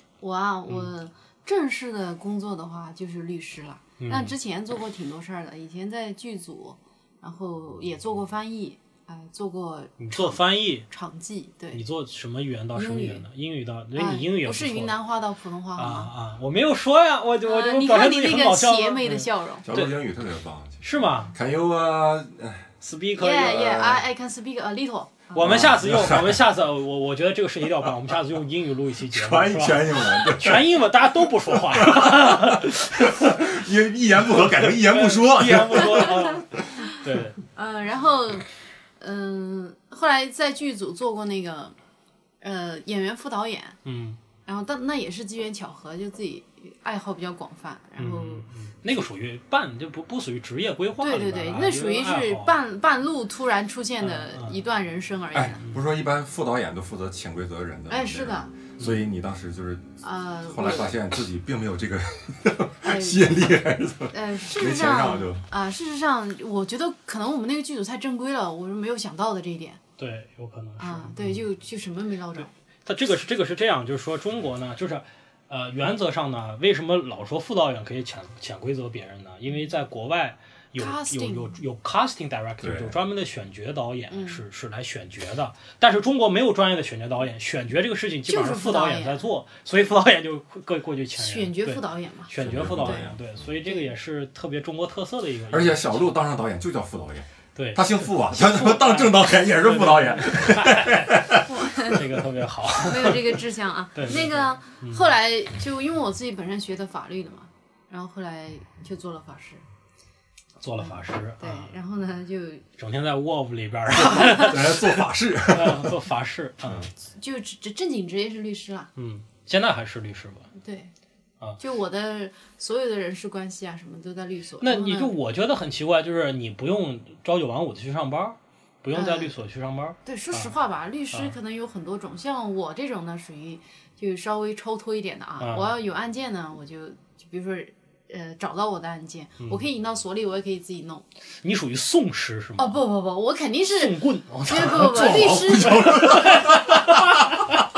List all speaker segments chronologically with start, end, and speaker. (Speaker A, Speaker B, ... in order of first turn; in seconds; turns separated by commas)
Speaker A: 0.2-11.8, Speaker B: 4.0-4.3, Speaker B: 10.0-10.9, Speaker B: 11.7-15.0, Speaker A: 12.7-13.2, Speaker A: 13.9-16.1, Speaker B: 15.8-19.9, Speaker A: 17.4-19.6, Speaker C: 19.6-22.7, Speaker B: 20.8-21.3, Speaker B: 22.8-23.9, Speaker A: 23.2-25.6, Speaker B: 25.3-33.5, Speaker C: 25.4-26.4, Speaker C: 29.1-30.7, Speaker C: 31.5-36.7, Speaker B: 34.3-37.4, Speaker A: 35.8-36.9, Speaker A: 37.5-41.7, Speaker A: 42.4-43.8, Speaker B: 43.9-44.2, Speaker A: 44.4-49.1, Speaker B: 48.0-52.6, Speaker A: 51.0-55.6, Speaker B: 54.0-54.6, Speaker C: 55.3-65.4, Speaker A: 57.9-58.5, Speaker A: 60.0-60.9, Speaker A: 62.8-63.4, Speaker A: 64.1-69.8, Speaker B: 70.0-71.4, Speaker A: 70.8-72.5, Speaker B: 72.9-96.1, Speaker A: 80.8-81.6, Speaker C: 82.6-83.0, Speaker A: 84.1-84.4, Speaker A: 88.3-89.2, Speaker A: 91.2-93.1, Speaker C: 92.4-93.4, Speaker A: 93.7-93.9, Speaker C: 95.5-101.5, Speaker B: 97.5-103.4, Speaker A: 101.5-102.1, Speaker A: 102.8-109.6, Speaker B: 103.9-105.1, Speaker B: 110.6-111.7, Speaker A: 110.8-112.7, Speaker B: 112.8-116.9, Speaker C: 114.0-116.0, Speaker A: 114.1-114.5, Speaker C: 116.7-116.9, Speaker A: 117.1-118.9, Speaker B: 119.0-120.5, Speaker A: 120.6-120.9, Speaker A: 121.6-125.1, Speaker B: 124.6-130.5, Speaker A: 128.9-129.4, Speaker A: 130.1-141.1, Speaker B: 135.4-135.7, Speaker B: 141.4-142.8, Speaker A: 142.6-146.3, Speaker B: 143.7-147.4, Speaker C: 144.8-147.5